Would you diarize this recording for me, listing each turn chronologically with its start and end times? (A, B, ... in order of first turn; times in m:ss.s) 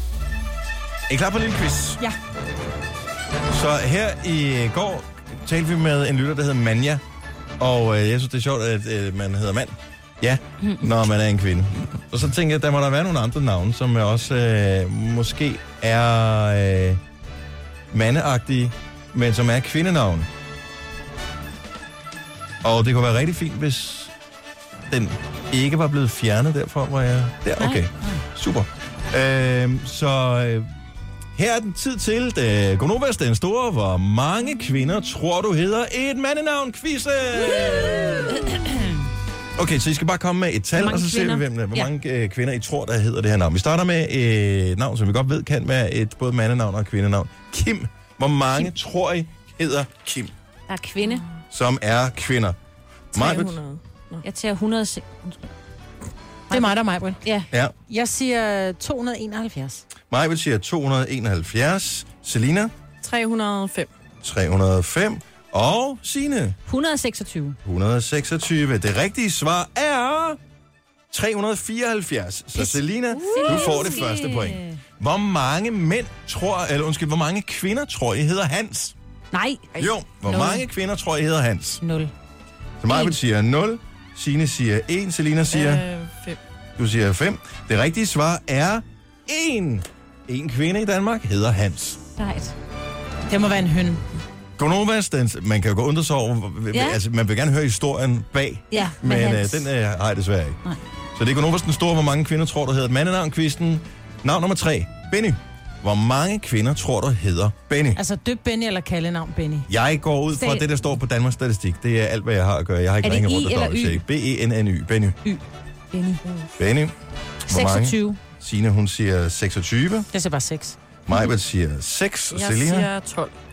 0:01.1-0:02.0 A
0:03.5-0:07.0 A
0:07.6-0:17.0 A
0:17.9-0:20.3 A
0:22.6-0:24.1 A
0:24.9-0:30.7 A
0:31.4-0:38.5 A
0:37.5-0:38.9 B
0:39.6-0:50.3 A
0:40.8-0:41.9 B
0:50.7-0:51.2 B
0:51.5-0:52.6 A
0:53.1-0:53.5 A
0:53.1-0:54.2 C
0:54.2-0:55.4 B
0:56.5-0:57.5 B
0:56.5-0:57.2 D
0:57.9-0:59.8 D
1:00.1-1:02.7 A
1:03.0-1:03.9 C
1:04.2-1:06.6 A
1:06.6-1:07.6 B
1:07.6-1:10.4 A
1:11.1-1:18.9 A
1:12.6-1:14.8 B
1:19.3-1:19.6 B
1:19.8-1:21.8 A
1:20.3-1:20.6 D
1:21.8-1:22.1 D
1:22.8-1:25.8 A
1:22.9-1:23.1 B
1:25.4-1:26.4 C
1:26.8-1:32.0 A
1:32.2-1:32.5 B
1:33.3-1:34.0 D
1:34.6-1:40.6 A
1:36.7-1:37.0 B
1:38.7-1:39.7 B
1:41.1-1:48.0 A
1:47.9-1:49.7 D
1:49.7-1:55.2 A
1:50.3-1:50.6 B
1:53.0-1:54.0 B
1:55.2-1:56.2 B
1:56.2-1:56.5 C
1:56.6-1:56.9 A
1:57.5-2:00.1 A
1:57.5-1:58.2 B
2:00.1-2:00.8 D
2:01.0-2:02.9 A
2:02.3-2:03.3 C